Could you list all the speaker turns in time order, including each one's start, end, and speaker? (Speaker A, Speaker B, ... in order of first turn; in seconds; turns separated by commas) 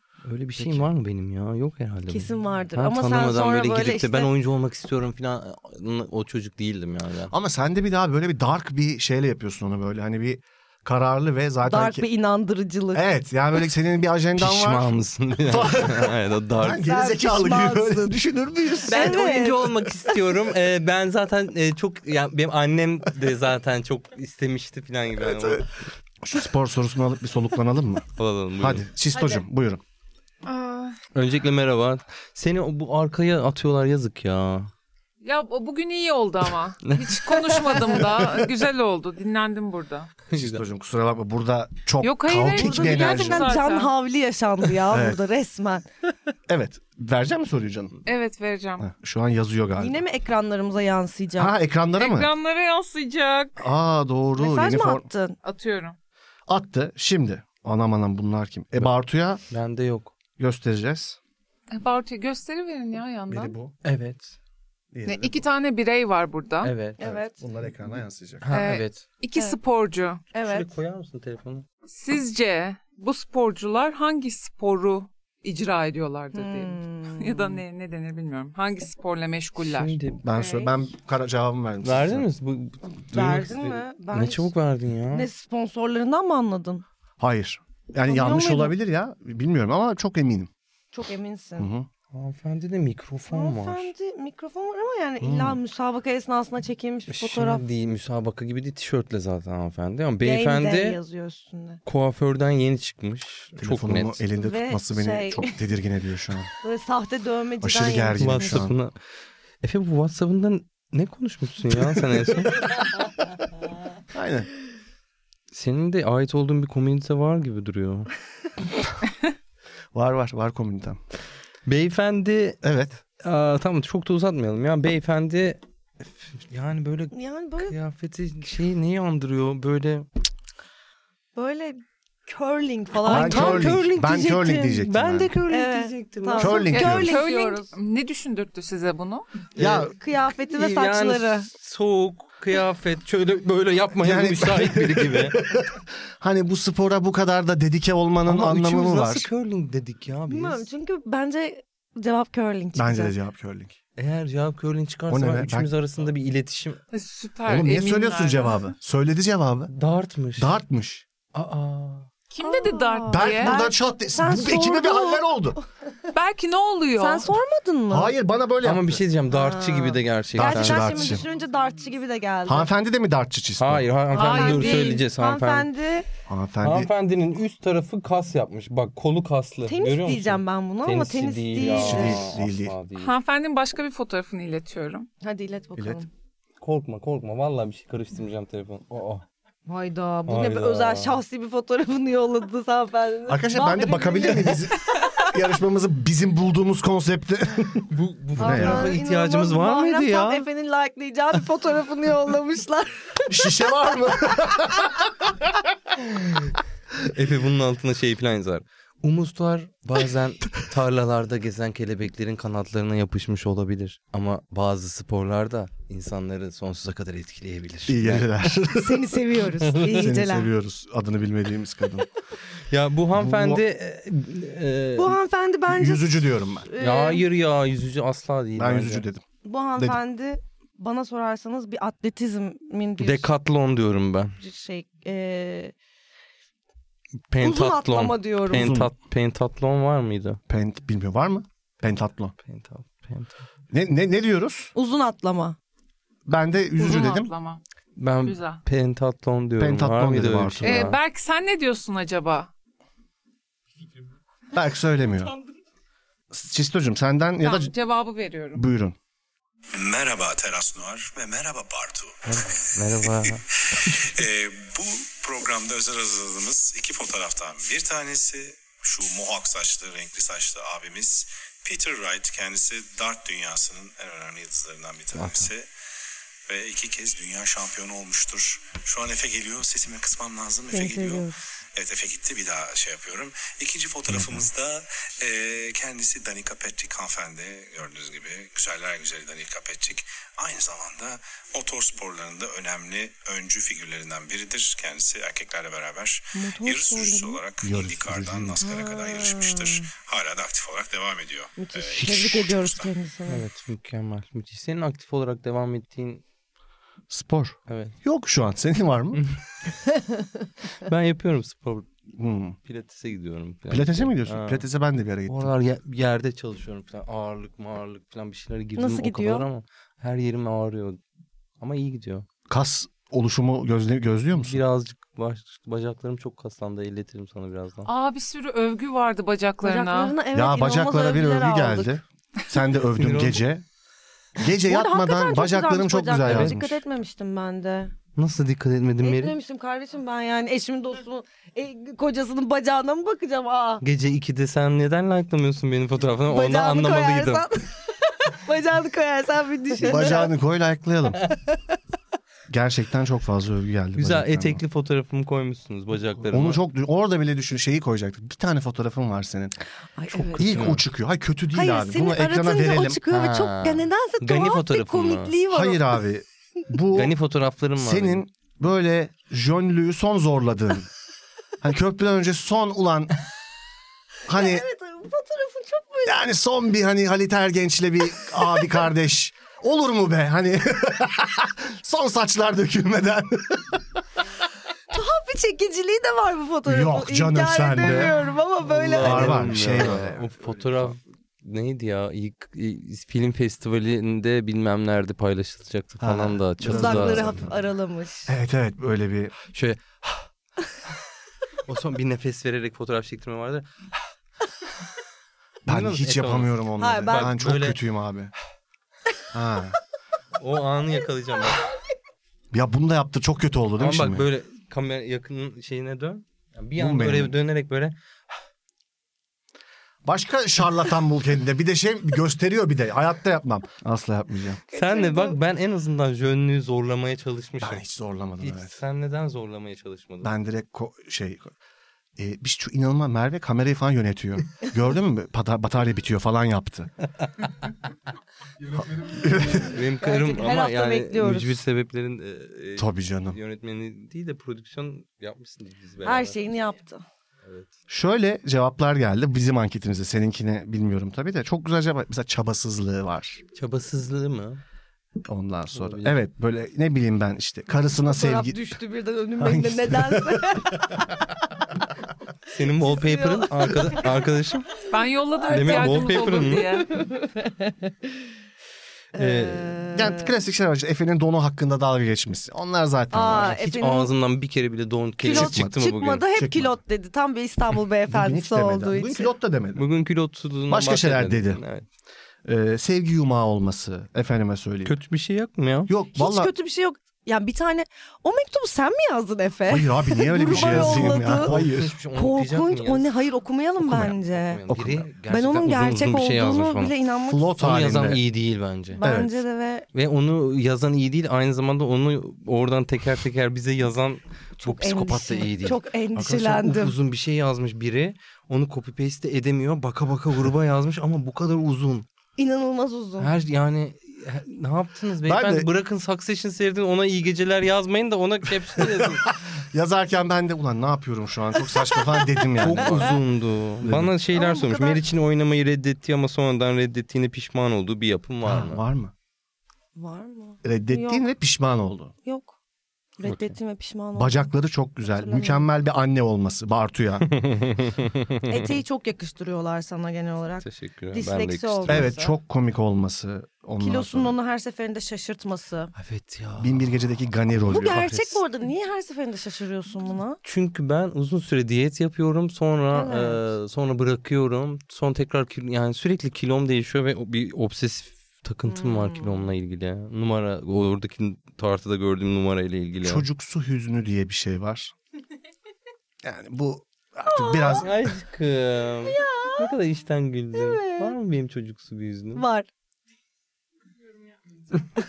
Speaker A: 0.2-7.3, Speaker B: 0.6-0.8, Speaker C: 2.1-4.3, Speaker B: 7.3-12.1, Speaker C: 11.7-13.0, Speaker B: 12.9-19.2, Speaker A: 14.4-16.8, Speaker C: 16.8-18.2, Speaker C: 18.9-19.7, Speaker A: 18.9-25.8, Speaker B: 25.2-25.6, Speaker B: 26.2-28.1, Speaker A: 28.2-28.9, Speaker B: 28.6-29.8, Speaker D: 30.4-31.0, Speaker A: 31.1-34.7, Speaker D: 35.2-40.2, Speaker A: 36.9-38.0, Speaker A: 40.3-40.6, Speaker B: 40.3-43.5, Speaker D: 42.0-43.9, Speaker C: 42.5-45.9, Speaker B: 44.9-45.2, Speaker B: 46.5-48.0, Speaker D: 48.1-48.9, Speaker B: 48.8-50.0, Speaker C: 49.8-51.5, Speaker B: 51.4-52.3, Speaker D: 52.0-53.6, Speaker B: 53.6-55.1, Speaker C: 54.4-55.4, Speaker D: 55.4-56.0, Speaker B: 56.5-59.4, Speaker A: 59.5-60.1, Speaker B: 60.4-61.2, Speaker D: 61.7-63.6, Speaker B: 63.3-63.7, Speaker A: 63.8-64.4, Speaker B: 64.9-65.4, Speaker D: 65.1-66.7, Speaker A: 66.6-67.0, Speaker C: 67.0-67.4, Speaker B: 67.0-68.5, Speaker A: 68.4-69.0, Speaker D: 68.5-70.2, Speaker C: 70.3-70.7, Speaker A: 70.4-71.7, Speaker D: 71.9-80.0, Speaker C: 76.3-77.6, Speaker A: 79.6-80.2, Speaker B: 80.2-82.3, Speaker C: 80.3-80.7, Speaker A: 81.8-85.3, Speaker C: 83.1-84.5, Speaker C: 85.1-86.8, Speaker B: 87.2-90.5, Speaker C: 88.1-88.8, Speaker C: 90.9-91.7, Speaker B: 91.6-91.9, Speaker A: 92.1-93.9, Speaker C: 93.3-97.6, Speaker B: 95.2-95.6, Speaker A: 97.1-101.0, Speaker C: 100.2-101.8, Speaker A: 101.9-104.2, Speaker B: 103.6-106.5, Speaker C: 104.3-105.6, Speaker C: 106.6-108.7, Speaker B: 107.6-108.8, Speaker A: 108.2-108.9, Speaker A: 109.6-112.7, Speaker B: 114.1-114.5, Speaker A: 115.5-118.1, Speaker B: 119.9-121.0, Speaker A: 121.7-122.6, Speaker B: 122.6-123.0, Speaker A: 123.2-130.1, Speaker C: 127.1-127.8, Speaker C: 131.3-133.8, Speaker A: 133.1-136.7, Speaker B: 133.1-135.3, Speaker C: 135.5-137.7, Speaker B: 136.4-137.2, Speaker D: 136.7-139.3, Speaker A: 139.6-145.4, Speaker B: 139.6-139.9, Speaker C: 139.9-141.5, Speaker B: 144.0-149.3, Speaker A: 148.3-150.7, Speaker C: 150.3-153.2, Speaker B: 152.8-153.8, Speaker A: 154.0-156.8, Speaker B: 155.1-155.7, Speaker D: 156.9-158.7, Speaker B: 157.5-159.7, Speaker A: 159.7-160.5, Speaker B: 160.4-161.1, Speaker A: 161.3-162.1, Speaker D: 162.3-163.5, Speaker C: 162.4-165.2, Speaker B: 163.1-165.6, Speaker D: 166.1-167.3, Speaker C: 167.0-168.1, Speaker B: 167.9-169.0, Speaker A: 168.6-171.2, Speaker C: 169.3-172.7, Speaker B: 170.4-171.2, Speaker B: 172.5-173.9, Speaker A: 173.6-175.7, Speaker D: 174.1-175.0, Speaker C: 174.2-176.1, Speaker B: 176.3-176.9, Speaker A: 176.6-183.1, Speaker C: 179.7-182.3, Speaker B: 181.6-182.8, Speaker D: 183.0-185.1, Speaker C: 185.2-186.1, Speaker B: 185.8-186.1, Speaker A: 186.6-189.2, Speaker C: 189.7-194.7, Speaker A: 190.3-191.2, Speaker B: 193.3-198.9, Speaker A: 197.9-200.4, Speaker C: 198.4-203.3, Speaker B: 203.3-205.5, Speaker A: 206.1-206.5, Speaker A: 207.1-218.3, Speaker B: 217.9-219.2, Speaker C: 218.7-220.5, Speaker A: 219.7-219.9, Speaker B: 219.8-222.1, Speaker A: 222.7-225.2, Speaker B: 223.2-223.6, Speaker C: 225.0-227.2, Speaker B: 225.7-226.7, Speaker A: 226.8-229.1, Speaker B: 228.6-229.2, Speaker C: 229.4-233.3, Speaker A: 233.0-234.4, Speaker C: 234.4-235.7, Speaker A: 237.3-240.4, Speaker C: 237.4-238.8, Speaker B: 238.5-238.9, Speaker B: 240.5-242.3, Speaker A: 242.5-243.3, Speaker B: 243.7-244.7, Speaker C: 244.8-245.6, Speaker B: 246.3-247.3, Speaker D: 246.8-247.6, Speaker A: 248.0-251.0, Speaker D: 248.2-248.6, Speaker B: 249.6-250.9, Speaker D: 250.6-252.5, Speaker B: 254.5-255.3, Speaker B: 256.3-257.7, Speaker D: 257.4-258.6, Speaker B: 258.5-259.0, Speaker E: 259.7-275.7, Speaker A: 262.3-263.4, Speaker A: 275.1-275.5, Speaker E: 276.5-302.9, Speaker C: 280.7-281.4, Speaker B: 284.1-284.5, Speaker C: 296.3-297.4, Speaker B: 297.6-298.6, Speaker C: 298.6-299.9, Speaker C: 301.6-303.4, Speaker B: 302.0-302.4, Speaker A: 303.3-306.2, Speaker B: 307.1-309.2, Speaker A: 307.7-308.0, Speaker A: 310.9-311.9, Speaker B: 312.1-312.6, Speaker A: 312.6-314.6, Speaker B: 313.7-315.5, Speaker A: 315.3-321.0, Speaker C: 318.8-319.5, Speaker A: 321.6-322.3, Speaker B: 322.5-324.6, Speaker A: 324.3-327.9, Speaker D: 327.9-330.2, Speaker C: 329.6-332.0, Speaker B: 330.3-333.6, Speaker A: 332.9-333.4, Speaker B: 334.4-336.8, Speaker C: 334.7-337.9, Speaker A: 336.2-336.6, Speaker A: 338.2-339.4, Speaker C: 339.0-343.8, Speaker A: 343.8-347.5, Speaker C: 346.3-350.3, Speaker B: 349.8-351.2, Speaker B: 352.5-354.6, Speaker A: 354.0-356.6, Speaker B: 356.3-359.6, Speaker C: 360.0-360.7, Speaker B: 360.1-363.0, Speaker A: 360.4-360.8, Speaker C: 361.5-365.8, Speaker A: 363.1-365.3, Speaker B: 365.5-367.1, Speaker A: 366.9-368.2, Speaker B: 367.8-370.9, Speaker B: 371.6-373.1, Speaker B: 374.3-374.6, Speaker C: 374.3-376.2, Speaker B: 376.1-384.0, Speaker C: 384.9-389.9, Speaker B: 386.7-388.1, Speaker A: 388.7-397.4, Speaker B: 389.0-390.3, Speaker B: 396.0-397.6, Speaker C: 396.6-398.3, Speaker B: 398.3-399.4, Speaker A: 399.5-400.3, Speaker A: 401.7-403.7, Speaker A: 405.7-407.8, Speaker B: 405.7-408.3, Speaker C: 406.8-407.3, Speaker B: 409.3-409.8, Speaker A: 410.4-411.6, Speaker B: 412.5-414.3, Speaker A: 413.8-417.9, Speaker B: 416.8-417.4, Speaker B: 420.1-424.6, Speaker C: 424.7-425.4, Speaker A: 424.7-427.9, Speaker B: 427.6-428.8, Speaker A: 428.4-430.3, Speaker B: 430.2-431.5, Speaker B: 432.2-436.9, Speaker B: 439.0-439.8, Speaker A: 439.6-446.4, Speaker C: 440.0-441.6, Speaker B: 442.8-443.4, Speaker C: 446.0-447.0, Speaker A: 447.4-447.7, Speaker B: 447.9-453.4, Speaker A: 453.6-454.6, Speaker B: 455.3-458.6, Speaker A: 455.7-456.2, Speaker C: 458.0-461.0, Speaker B: 459.4-460.6, Speaker A: 462.5-464.8, Speaker C: 462.8-463.8, Speaker D: 464.8-467.0, Speaker A: 465.5-466.7, Speaker C: 466.9-467.9, Speaker C: 469.1-470.3, Speaker A: 469.2-469.8, Speaker B: 470.0-473.6, Speaker C: 473.1-474.1, Speaker A: 473.4-476.3, Speaker B: 475.2-475.8, Speaker C: 475.2-479.3, Speaker B: 476.3-476.7, Speaker B: 478.1-479.9, Speaker A: 479.8-481.9, Speaker B: 480.7-481.6, Speaker B: 482.4-484.9, Speaker A: 484.9-485.9, Speaker B: 485.9-486.5, Speaker C: 486.1-491.6, Speaker B: 489.7-491.9, Speaker A: 490.5-493.1, Speaker C: 492.1-494.6, Speaker B: 493.8-494.2, Speaker A: 494.3-497.0, Speaker B: 494.7-495.1, Speaker C: 495.3-497.5, Speaker B: 497.3-498.2, Speaker A: 497.6-499.0, Speaker C: 499.0-499.9, Speaker B: 499.0-499.4, Speaker A: 499.9-512.1, Speaker C: 504.6-506.9, Speaker B: 506.2-506.6, Speaker C: 512.4-513.3, Speaker A: 513.2-519.3, Speaker B: 515.3-515.7, Speaker B: 518.8-523.2, Speaker A: 522.6-528.8, Speaker B: 523.8-524.1, Speaker C: 524.3-525.0, Speaker B: 528.5-529.1, Speaker C: 530.0-531.3, Speaker B: 530.6-532.1, Speaker C: 532.2-532.5, Speaker C: 533.2-534.5, Speaker B: 534.2-537.3, Speaker C: 535.1-535.7, Speaker A: 537.3-538.4, Speaker C: 538.5-542.4, Speaker A: 540.6-542.0, Speaker B: 541.9-544.4, Speaker C: 543.8-545.9, Speaker A: 546.0-547.1, Speaker B: 546.6-548.2, Speaker C: 547.7-550.4, Speaker A: 550.4-563.2, Speaker C: 552.9-553.4, Speaker C: 558.7-559.4, Speaker B: 563.0-564.9, Speaker B: 566.2-568.0, Speaker C: 567.3-567.9, Speaker A: 567.8-572.4, Speaker C: 569.1-569.7, Speaker C: 570.5-571.1, Speaker C: 572.4-572.7